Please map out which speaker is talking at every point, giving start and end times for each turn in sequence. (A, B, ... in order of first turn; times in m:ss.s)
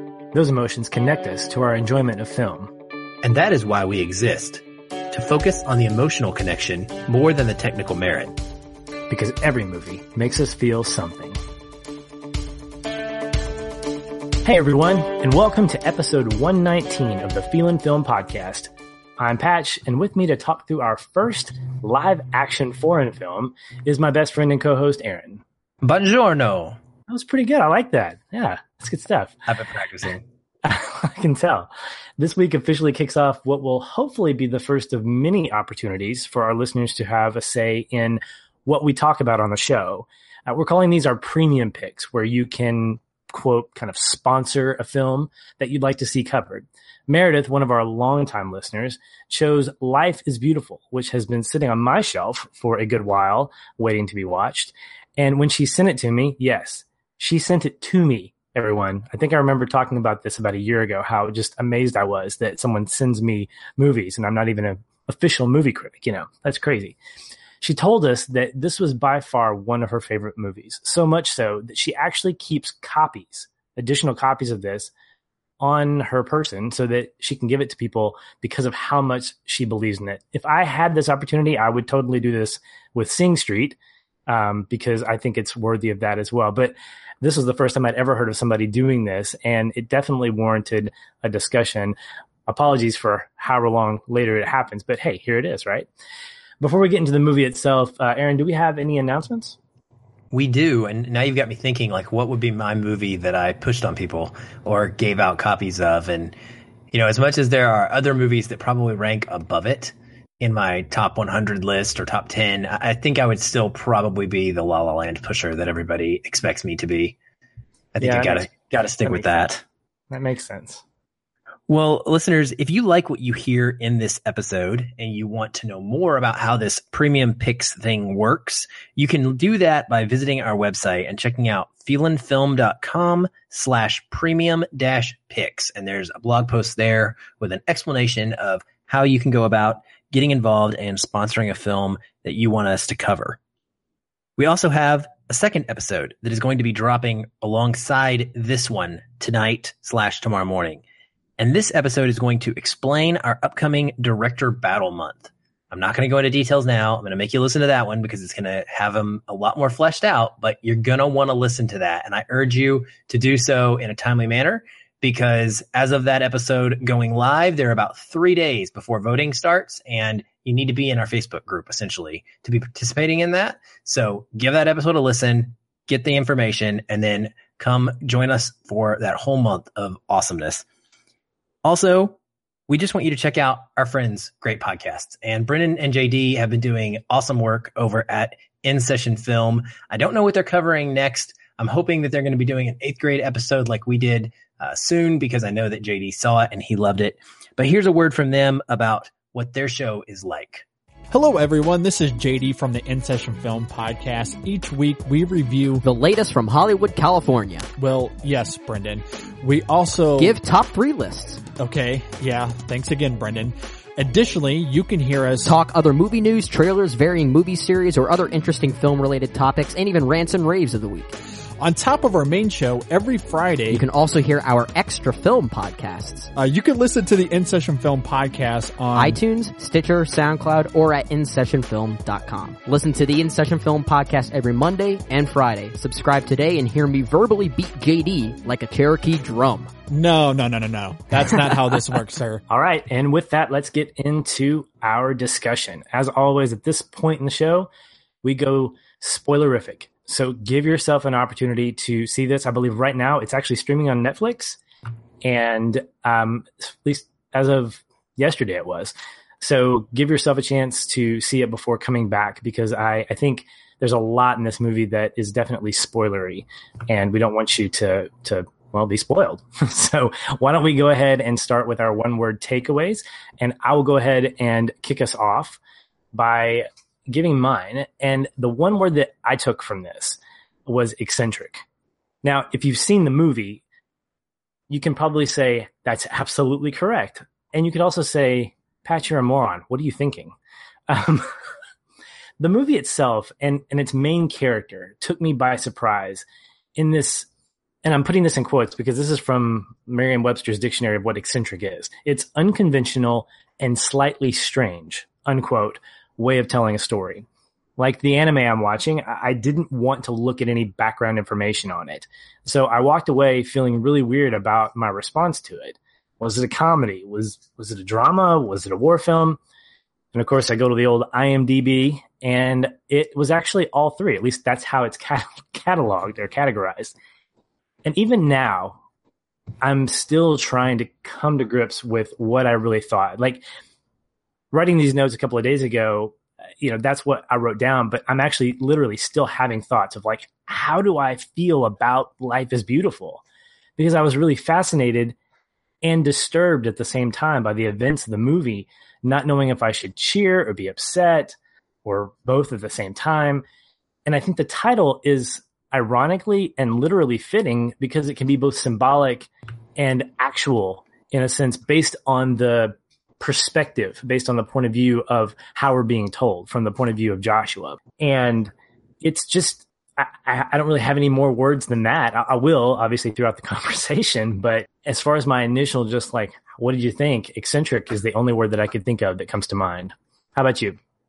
0:00.3-0:02.7 A
0:03.2-0:08.4 B
0:09.1-0:11.4 A
0:14.4-0:25.4 A
0:25.8-0:26.8 B
0:27.1-0:29.4 A
0:29.5-0:30.2 B
0:30.6-1:07.0 A
1:07.6-1:14.9 A
1:15.6-1:23.8 A
1:24.3-1:31.9 A
1:32.5-1:35.9 A
1:36.6-1:39.6 A
1:40.3-1:46.3 B
1:46.9-1:57.2 B
1:57.9-1:59.6 B
1:58.0-1:58.5 A
1:59.0-1:59.4 A
2:00.1-2:00.8 A
2:01.7-2:23.4 B
2:24.4-2:30.8 B
2:31.4-3:00.6 B
3:01.6-3:20.6 B
3:21.1-3:25.8 C
3:25.8-3:27.7 D
3:27.8-3:30.3 C
3:30.2-3:31.4 D
3:31.6-3:35.6 C
3:35.4-3:41.1 D
3:41.6-3:43.8 C
3:43.7-3:46.3 D
3:46.3-3:49.2 C
3:48.9-3:59.7 D
3:59.9-4:02.4 C
4:02.5-4:07.7 A
4:08.2-4:14.6 A
4:15.2-4:35.6 A
4:36.1-4:41.6 A
4:42.2-4:43.6 A
4:44.7-4:50.3 A
4:50.9-4:51.3 A
4:52.4-4:56.2 A
4:56.8-4:57.3 A
4:57.8-5:07.2 A
5:07.8-5:19.4 A
5:20.1-5:26.9 A
5:27.8-5:28.8 A
5:29.6-5:33.4 A
5:34.5-5:43.2 A
5:43.8-5:45.2 A
5:45.8-5:53.4 A
5:54.0-6:20.8 A